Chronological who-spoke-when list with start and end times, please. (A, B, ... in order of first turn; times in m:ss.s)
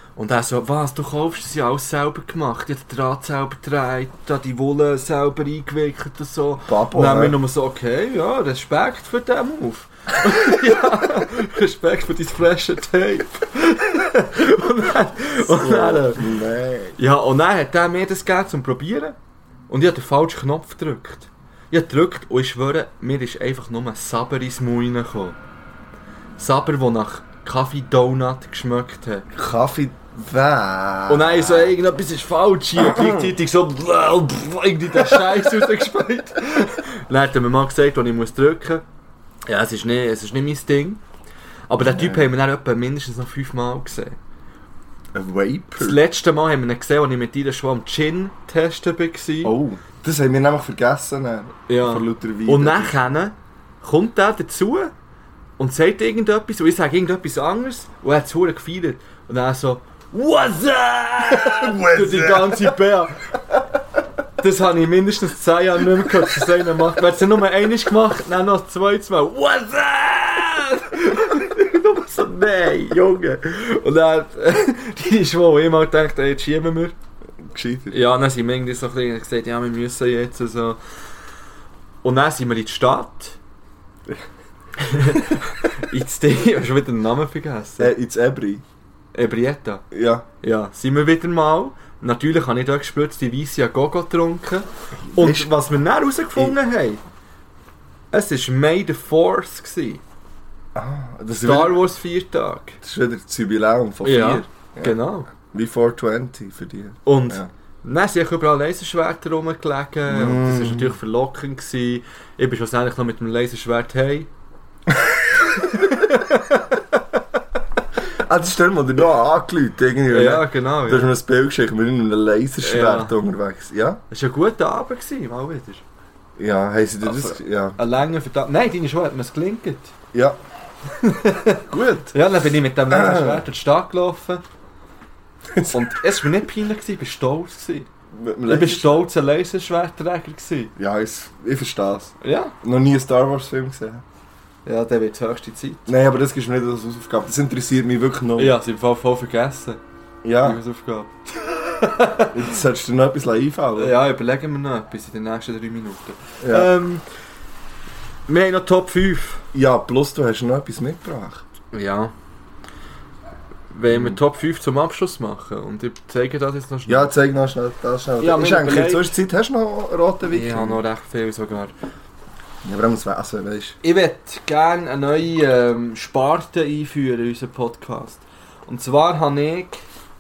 0:00.2-0:16.4 A
0:06.7-0:07.4 B
0:15.4-0:17.0 B
0:17.0-0:19.2 A
0:19.7-0:25.4 A
0:26.4-0:29.3 A
0:29.3-0:31.7 B
0:31.1-0:38.8 A
0:32.8-0:33.3 B
0:35.0-0:35.4 B
0:39.5-0:41.0 A
0:41.7-0:44.2 A
0:41.8-0:42.3 B
0:45.1-0:46.0 B
0:45.8-0:49.6 A
0:49.4-0:53.0 B
0:51.7-0:54.9 A
0:55.6-1:03.3 A
1:01.3-1:02.8 B
1:04.4-1:16.9 A
1:17.4-1:18.0 B
1:17.9-1:20.8 A
1:22.0-1:23.4 A
1:24.8-1:27.9 A
1:27.8-1:28.6 B
1:29.1-1:29.8 A
1:29.9-1:30.3 B
1:30.4-1:37.0 A
1:35.0-1:35.5 B
1:38.1-1:40.0 A
1:40.8-1:41.8 B
1:41.4-1:42.8 A
1:42.8-1:47.5 B
1:44.0-1:45.3 A
1:47.1-1:54.3 A
1:50.1-1:51.0 B
1:54.9-1:56.0 B
1:55.5-1:56.8 A
1:58.1-2:04.0 B
2:00.1-2:01.1 A
2:02.6-2:03.2 A
2:04.1-2:05.8 A
2:06.4-2:07.8 B
2:07.0-2:09.9 A
2:10.1-2:10.4 B
2:10.9-2:14.4 A
2:11.7-2:12.2 B
2:12.9-2:13.4 B
2:15.5-2:15.9 B
2:15.7-2:17.9 A
2:18.1-2:19.1 B
2:18.5-2:20.7 A
2:20.8-2:24.0 B
2:22.2-2:22.5 A
2:24.6-2:25.9 A
2:25.9-2:28.6 B
2:28.4-2:29.8 A
2:30.2-2:30.6 B
2:30.4-2:32.4 A
2:32.3-2:34.0 B
2:33.8-2:37.0 A
2:36.4-2:36.7 B
2:38.3-2:39.4 A
2:39.5-2:41.4 B
2:41.7-2:42.1 A
2:43.7-2:47.2 A
2:43.9-2:44.2 B
2:46.9-2:50.8 B
2:48.2-2:49.1 A
2:50.3-2:51.7 A
2:52.6-2:53.8 B
2:53.8-2:59.8 A